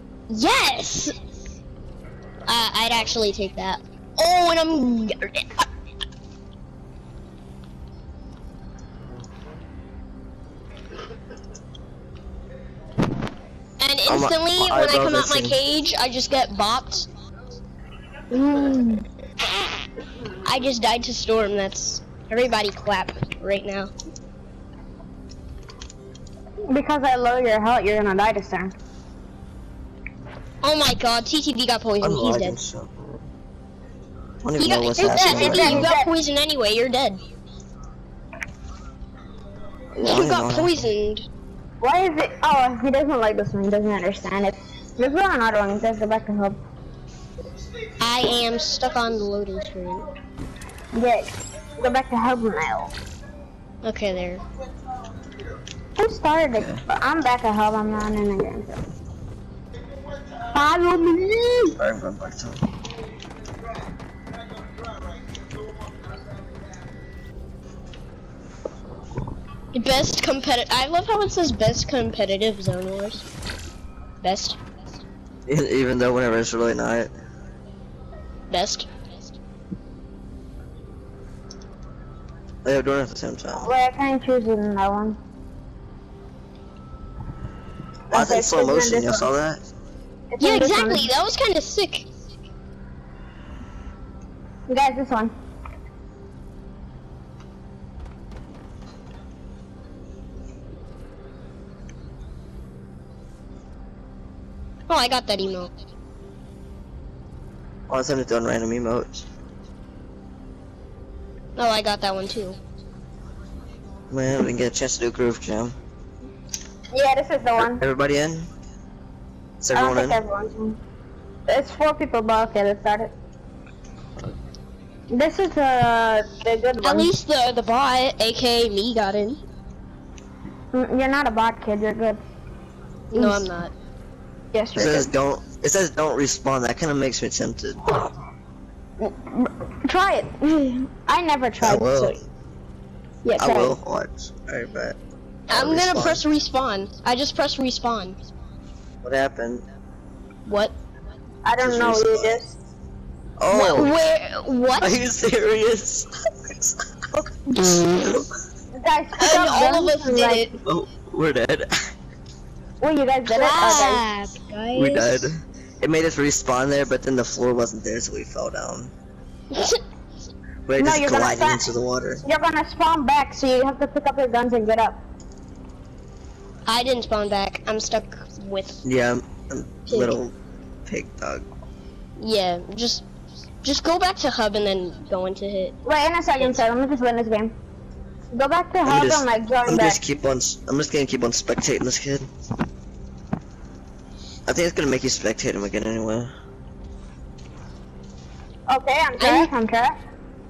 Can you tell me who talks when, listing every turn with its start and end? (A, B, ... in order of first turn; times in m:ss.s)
0:00.3-0:01.1 A
0:02.5-0:05.6 A
0:13.8-0:17.1 A
0:14.1-0:15.6 B
0:18.3-0:19.0 C
0:20.4-0:23.9 A
0:26.7-0:28.7 C
0:30.6-0:32.6 A
0:32.0-0:33.3 B
0:34.4-0:35.9 B
0:34.6-0:37.2 A
0:35.0-0:36.1 C
0:40.0-0:41.3 A
0:40.0-0:40.7 B
0:41.8-0:46.6 C
0:48.0-0:50.1 A
0:50.9-0:52.9 C
0:53.8-0:54.4 A
0:56.0-0:58.8 C
0:56.5-0:56.8 B
1:00.5-1:01.8 C
1:01.8-1:02.6 B
1:09.7-1:13.2 A
1:14.2-1:14.6 A
1:15.5-1:17.1 B
1:18.5-1:18.9 A
1:22.6-1:23.7 B
1:23.5-1:25.2 C
1:28.1-1:29.3 C
1:28.1-1:29.6 B
1:30.3-1:31.1 C
1:30.4-1:32.1 A
1:34.7-1:35.3 C
1:44.9-1:45.7 A
1:47.9-1:49.3 B
1:51.6-1:52.6 A
1:54.1-1:55.8 B
1:56.9-1:57.8 C
1:57.6-1:58.5 B
1:59.6-2:00.2 B
1:59.7-2:00.8 C
2:01.5-2:03.1 C
2:05.1-2:07.1 C
2:06.8-2:09.4 A
2:10.7-2:12.2 C
2:13.1-2:13.7 A
2:13.1-2:13.4 C
2:14.5-2:15.1 C
2:14.8-2:17.9 B
2:19.0-2:22.2 C
2:21.6-2:22.2 B
2:23.2-2:23.8 C
2:23.4-2:25.0 B
2:25.5-2:28.2 A
2:25.5-2:26.2 B
2:29.0-2:29.6 B
2:30.5-2:30.8 A
2:31.4-2:32.6 C
2:31.6-2:32.4 B
2:33.4-2:34.0 B
2:33.5-2:35.0 A
2:34.8-2:36.8 B
2:38.0-2:38.3 B
2:38.7-2:40.5 C
2:39.2-2:40.6 A
2:40.7-2:41.7 B
2:42.8-2:44.0 C
2:43.3-2:45.3 A
2:44.8-2:48.9 B
2:49.5-2:49.8 A
2:50.7-2:52.2 B
2:50.8-2:51.7 C
2:52.2-2:55.0 C
2:56.7-2:58.8 A
2:58.8-3:00.4 B
2:59.9-3:00.2 A
3:00.9-3:01.5 B
3:02.2-3:03.1 A
3:03.6-3:05.8 A
3:05.8-3:07.6 C
3:08.3-3:10.0 C
3:08.9-3:12.3 B
3:14.5-3:16.3 B
3:18.7-3:20.0 C
3:19.2-3:19.5 A